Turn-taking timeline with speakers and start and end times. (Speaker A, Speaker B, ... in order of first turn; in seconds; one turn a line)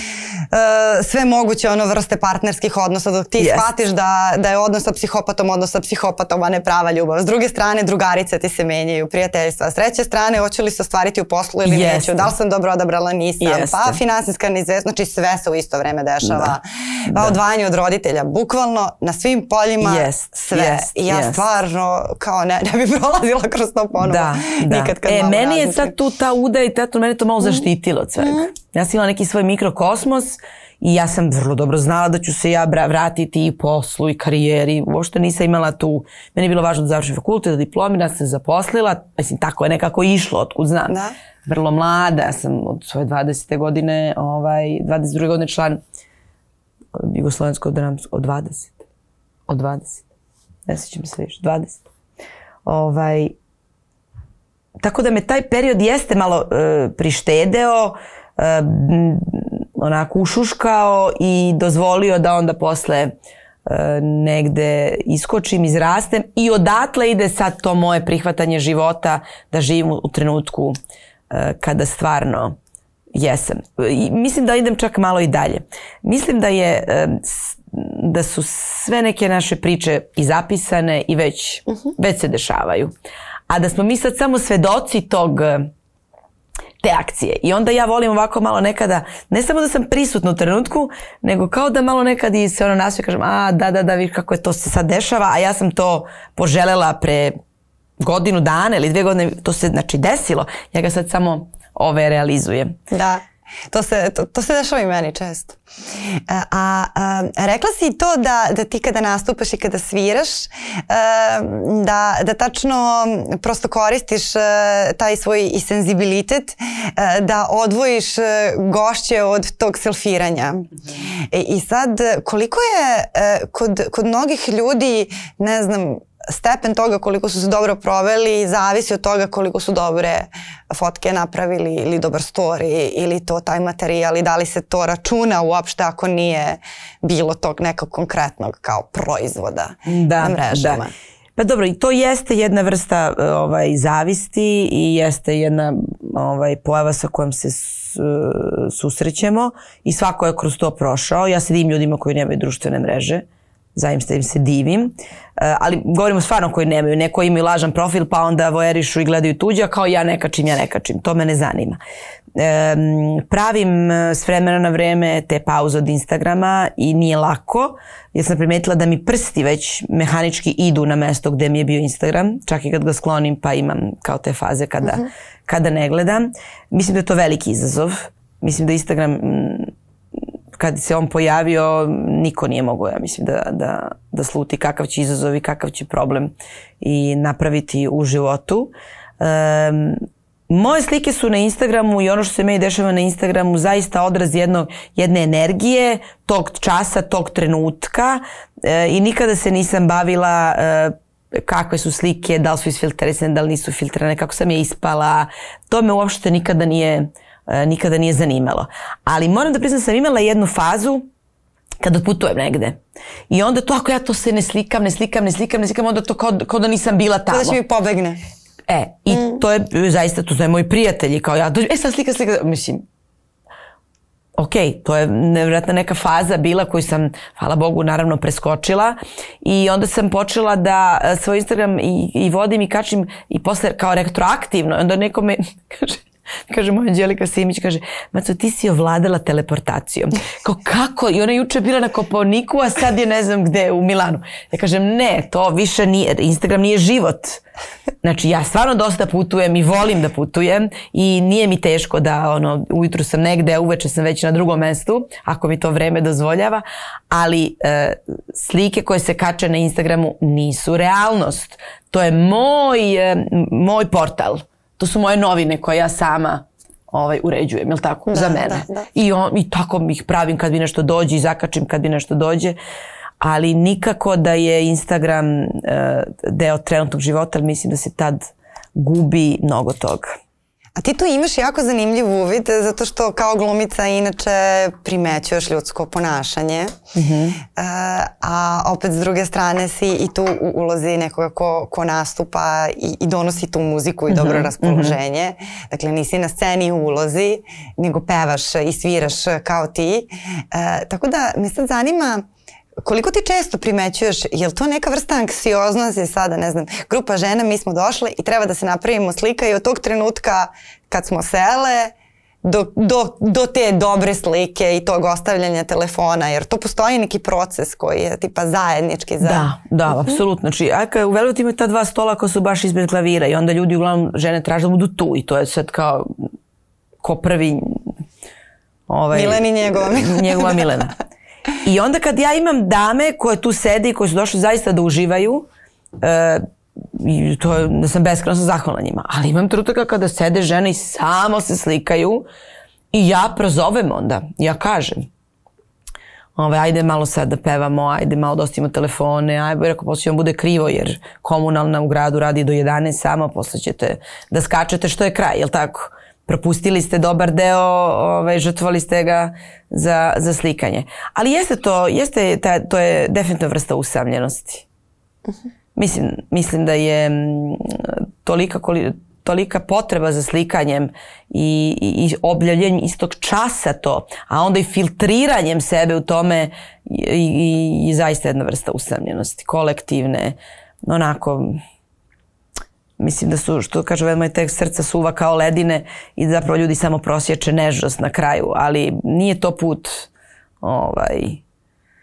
Speaker A: 0.5-26.0
Speaker B: 3.4-3.7
Speaker B: 11.7-12.3
Speaker B: 13.4-14.0
Speaker B: 16.2-16.5
Speaker B: 19.8-21.4
Speaker B: 24.0-41.0
Speaker A: 28.2-28.5
Speaker A: 40.9-41.1
Speaker B: 41.5-45.8
Speaker B: 46.9-48.8
Speaker B: 49.5-50.0
Speaker B: 50.7-51.8
Speaker B: 52.7-53.3
Speaker B: 54.8-63.1
Speaker B: 63.7-70.8
Speaker B: 71.3-72.6
Speaker B: 73.1-82.9
Speaker B: 83.5-85.7
Speaker B: 86.8-97.4
Speaker B: 98.0-102.8
Speaker A: 102.9-105.6
Speaker A: 106.3-120.7
Speaker A: 121.3-140.9
Speaker B: 139.9-140.8
Speaker B: 141.4-161.8
Speaker B: 162.3-179.7
Speaker B: 180.6-211.1
Speaker B: 211.8-212.8
Speaker B: 213.3-217.6
Speaker A: 217.3-218.2
Speaker B: 218.7-222.8
Speaker B: 224.4-247.4
Speaker B: 248.0-272.6
Speaker A: 268.1-268.9
Speaker B: 273.2-280.1
Speaker A: 280.8-286.8
Speaker B: 286.9-287.4
Speaker A: 287.6-302.2
Speaker B: 294.1-295.0
Speaker A: 302.8-311.9
Speaker A: 312.4-319.5
Speaker B: 319.2-326.1
Speaker B: 327.0-327.9
Speaker B: 328.9-330.9
Speaker A: 329.1-330.7
Speaker B: 331.6-335.5
Speaker B: 336.0-342.2
Speaker B: 342.9-345.1
Speaker B: 346.4-364.6
Speaker B: 365.8-381.6
Speaker B: 383.0-390.1
Speaker B: 390.6-391.4